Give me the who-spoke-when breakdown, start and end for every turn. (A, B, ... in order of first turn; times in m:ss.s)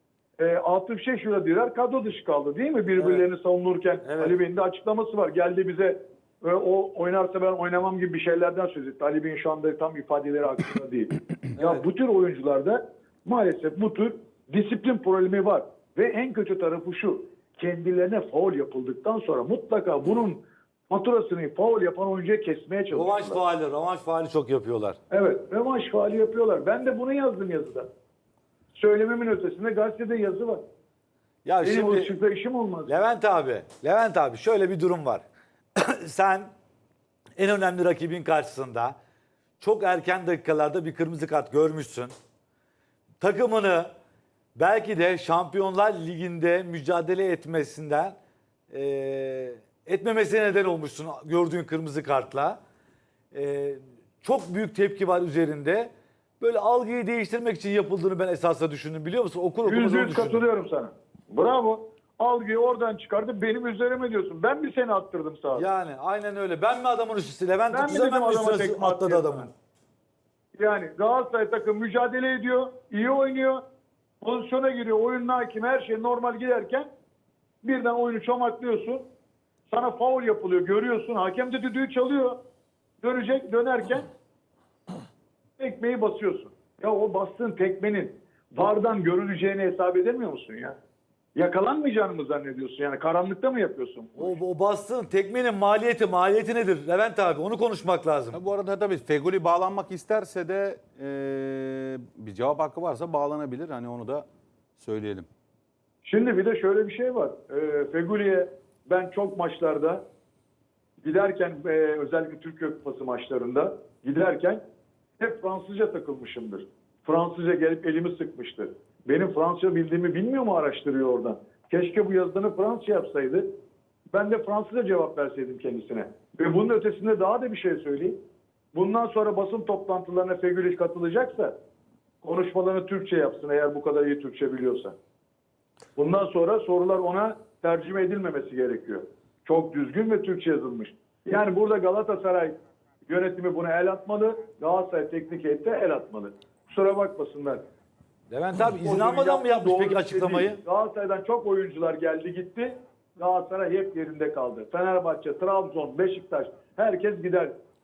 0:00.4-0:23.4 A
0:03.0-0:03.2 B
0:04.0-0:04.4 B
0:11.6-0:11.8 B
0:22.9-0:25.0 B
0:25.1-0:27.9 A
0:28.7-0:30.6 A
0:31.4-0:32.1 B
0:31.6-0:32.9 A
0:32.9-0:35.2 B
0:35.8-0:36.5 B
0:37.4-0:39.0 B
0:39.6-0:42.1 B
0:43.2-0:43.9 B
0:44.5-0:48.2 B
0:48.7-0:52.6 B
0:53.3-1:00.4 B
0:59.6-1:05.7 A
1:05.5-1:09.5 B
1:07.7-1:09.5 A
1:10.5-1:13.6 A
1:14.2-1:16.9 A
1:17.6-1:19.1 A
1:19.7-1:22.4 A
1:23.0-1:24.1 A
1:25.6-1:30.8 A
1:31.3-1:34.4 A
1:34.2-1:38.4 B
1:38.3-1:44.2 C
1:44.8-1:45.3 C
1:46.0-1:50.0 A
1:51.0-1:54.6 A
1:55.2-2:03.5 A
2:04.1-2:08.2 A
2:08.7-2:11.5 A
2:12.2-2:15.0 A
2:16.0-2:27.6 A
2:28.3-2:30.6 B
2:28.8-2:37.5 A